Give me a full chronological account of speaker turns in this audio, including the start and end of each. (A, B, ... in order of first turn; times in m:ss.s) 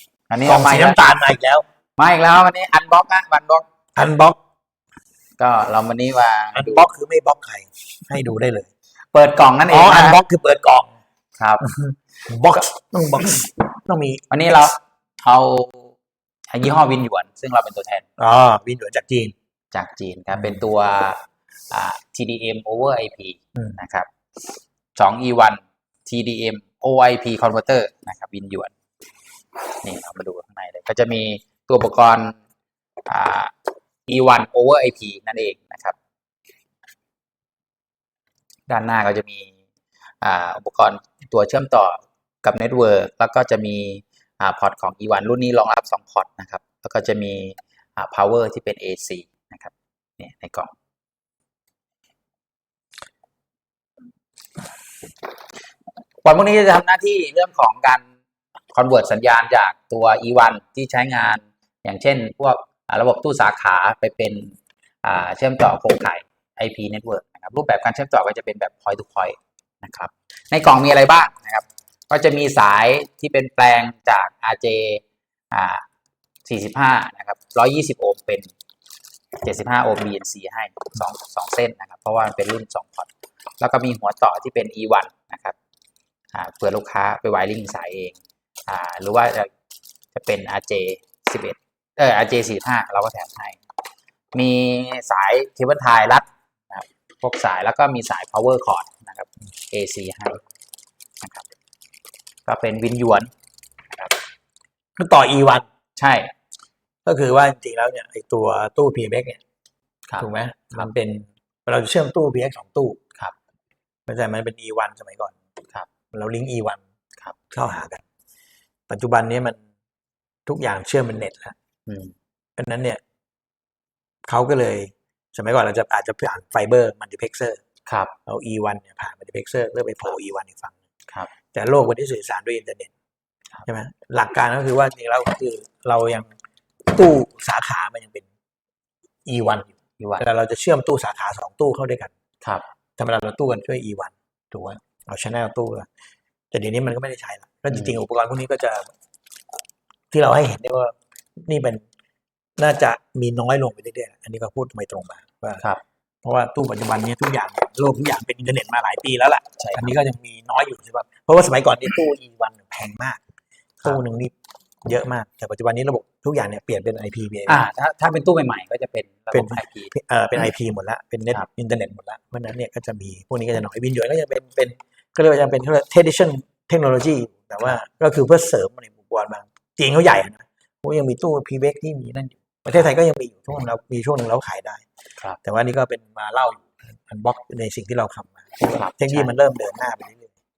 0:00.3-0:01.0 A
0:00.4-0:01.6 B
0:02.0-0:03.6 A
0:04.0-0:04.4 B
0:05.4-0:06.8 A
0:06.5-0:08.7 B
0:09.1-0:10.2 A
0:09.7-0:10.9 B
0:11.6-0:14.7 B
0:14.3-0:15.9 A
0:16.5-0:18.0 A
0:18.2-0:19.3 B
0:19.7-0:24.1 A
0:25.0-0:28.7 A
0:29.8-0:32.4 A
0:33.1-0:33.5 A
0:34.1-0:36.0 A
0:38.7-0:39.5 A
0:40.2-0:50.7 A
0:56.2-0:58.0 A
0:58.7-1:15.8 A
1:16.4-1:18.5 A
1:19.4-1:25.6 A
1:26.3-1:29.5 A
1:30.1-1:33.6 A
1:34.3-1:40.4 A
1:41.2-1:41.5 A
1:42.4-1:43.3 A
1:45.0-1:45.6 B
1:46.0-1:46.3 A
1:47.0-1:49.4 B
1:50.1-1:50.9 A
1:50.2-1:53.0 B
1:54.1-1:55.4 B
1:56.1-1:56.8 B
1:57.5-1:58.0 B
1:58.9-1:59.6 B
2:00.4-2:01.5 B
2:01.9-2:02.1 A
2:02.6-2:03.0 B
2:04.2-2:07.6 B
2:07.9-2:08.1 A
2:08.2-2:10.8 B
2:11.5-2:12.9 B
2:13.6-2:16.3 B
2:16.9-2:18.3 B
2:19.2-2:22.1 B
2:23.0-2:25.9 B
2:26.5-2:28.9 B
2:27.7-2:28.0 A
2:30.1-2:31.8 B
2:32.6-2:35.6 B
2:36.2-2:43.2 B
2:39.6-2:39.9 A
2:43.8-2:44.3 B
2:44.8-2:47.6 B
2:47.5-2:49.9 A
2:49.3-3:04.8 B
3:05.4-3:10.3 B
3:08.7-3:09.3 A